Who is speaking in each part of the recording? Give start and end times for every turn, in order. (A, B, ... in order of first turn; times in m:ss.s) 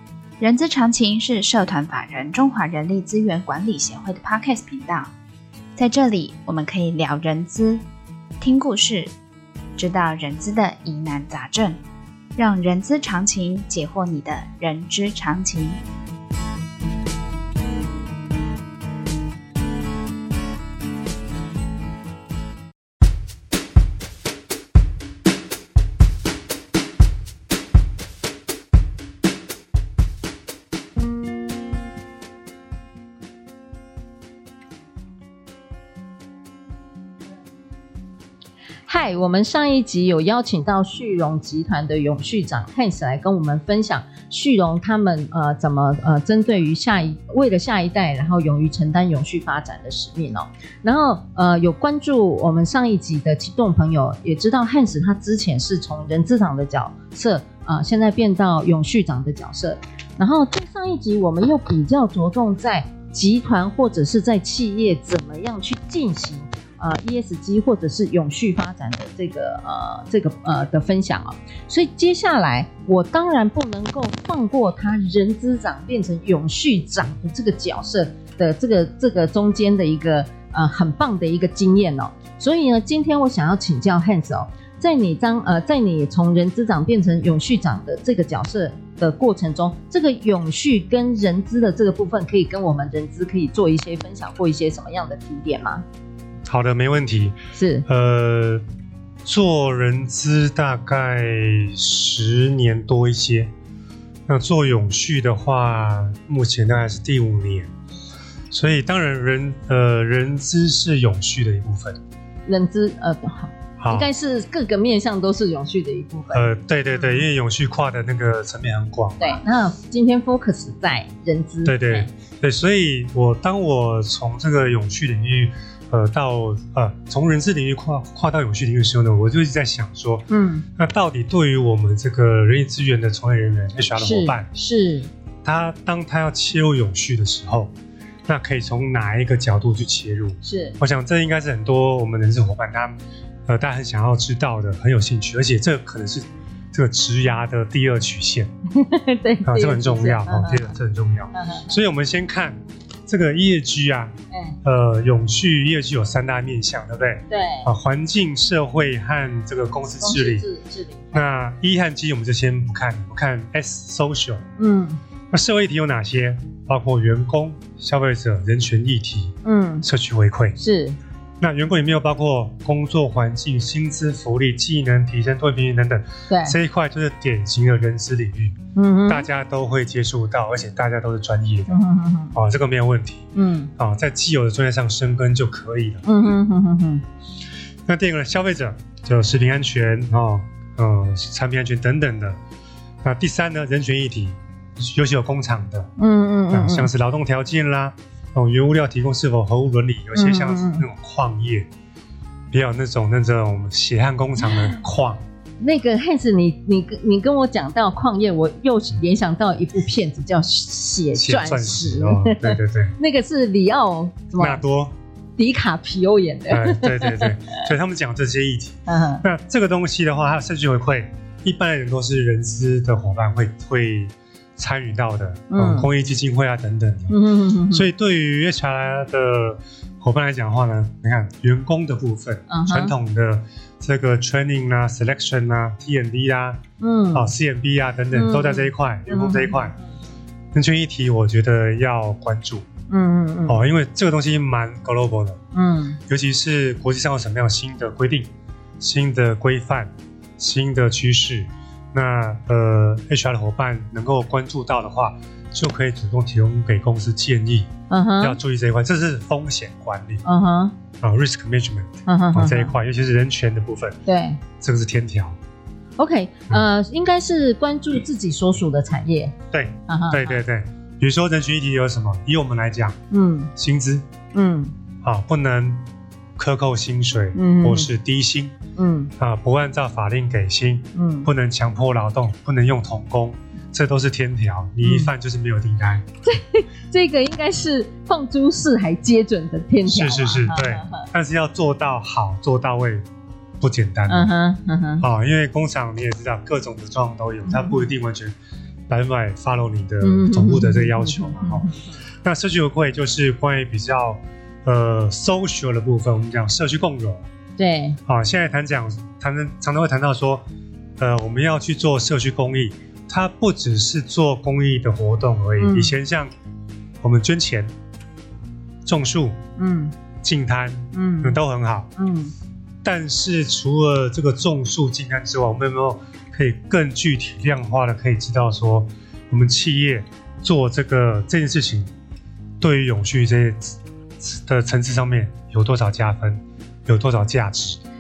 0:00.4-0:05.1 A
0:05.8-0:07.8 A
0:08.4-0:09.1 A
0:09.8-0:11.8 A
0:12.4-0:15.8 A
0:38.9-1:35.8 B
1:36.5-1:38.6 C
1:37.5-1:37.9 B
1:39.2-1:43.5 C
1:44.3-1:47.7 C
1:48.5-1:52.0 C
1:52.5-1:57.3 B
1:53.8-1:54.1 C
1:56.3-1:59.4 C
1:59.2-2:02.1 B
2:01.6-2:10.2 C
2:10.3-2:10.7 B
2:10.8-2:14.5 C
2:14.0-2:15.1 B
2:15.4-2:17.7 C
2:18.3-2:23.0 C
2:20.4-2:20.8 B
2:23.5-2:28.5 C
2:28.8-2:30.7 B
2:29.5-2:34.1 C
2:31.3-2:31.7 B
2:34.3-2:34.6 B
2:34.6-2:40.4 C
2:37.3-2:37.7 B
2:40.0-2:41.2 B
2:41.1-2:44.4 C
2:44.6-2:45.0 B
2:45.3-2:50.6 C
2:49.4-2:49.9 B
2:50.6-2:51.0 B
2:51.4-2:58.6 C
2:56.3-2:56.6 B
2:58.8-2:59.3 B
2:59.1-3:01.8 C
3:01.7-3:02.4 B
3:02.3-3:03.3 C
3:03.4-3:03.7 B
3:03.8-3:06.0 C
3:06.0-3:07.0 B
3:07.9-3:12.4 C
3:13.0-3:15.9 C
3:16.0-3:16.9 B
3:16.5-3:21.7 C
3:20.1-3:20.9 B
3:22.5-3:25.2 C
3:25.6-3:34.6 B
3:31.2-3:33.0 C
3:34.4-3:34.9 C
3:35.4-3:37.6 B
3:36.5-3:47.2 C
3:38.9-3:39.2 B
3:45.5-3:45.9 B
3:47.1-3:47.9 B
3:47.7-3:56.6 C
3:52.5-3:53.0 B
3:56.8-3:57.3 B
3:57.1-3:59.8 C
3:58.1-3:59.8 B
4:00.5-4:02.7 C
4:02.9-4:03.6 B
4:03.5-4:05.4 C
4:05.5-4:06.0 B
4:06.1-4:20.2 C
4:17.9-4:18.4 B
4:20.2-4:20.8 B
4:21.0-4:24.0 C
4:22.1-4:22.7 B
4:24.1-4:24.4 B
4:24.6-4:25.4 C
4:26.0-4:29.3 B
4:29.5-4:33.0 C
4:29.9-4:30.4 B
4:33.1-4:33.5 B
4:33.6-4:34.0 C
4:34.3-4:34.7 B
4:35.0-4:35.8 C
4:36.4-4:38.5 C
4:37.3-4:37.9 B
4:38.8-4:39.1 B
4:39.2-4:46.0 C
4:40.9-4:41.3 B
4:44.8-4:45.1 B
4:46.2-4:51.1 B
4:49.8-4:53.0 C
4:53.6-4:54.3 C
4:54.1-4:55.1 B
4:55.0-4:58.4 C
4:57.4-4:57.9 B
4:58.9-5:01.7 C
5:00.0-5:01.9 B
5:02.2-5:07.2 C
5:07.6-5:08.0 B
5:08.1-5:10.4 C
5:11.0-5:16.3 C
5:15.6-5:16.0 B
5:17.0-5:17.7 C
5:18.9-5:19.4 C
5:19.6-5:20.0 B
5:20.2-5:21.9 C
5:20.9-5:21.4 B
5:22.0-5:22.3 B
5:22.8-5:31.9 C
5:32.6-5:37.8 C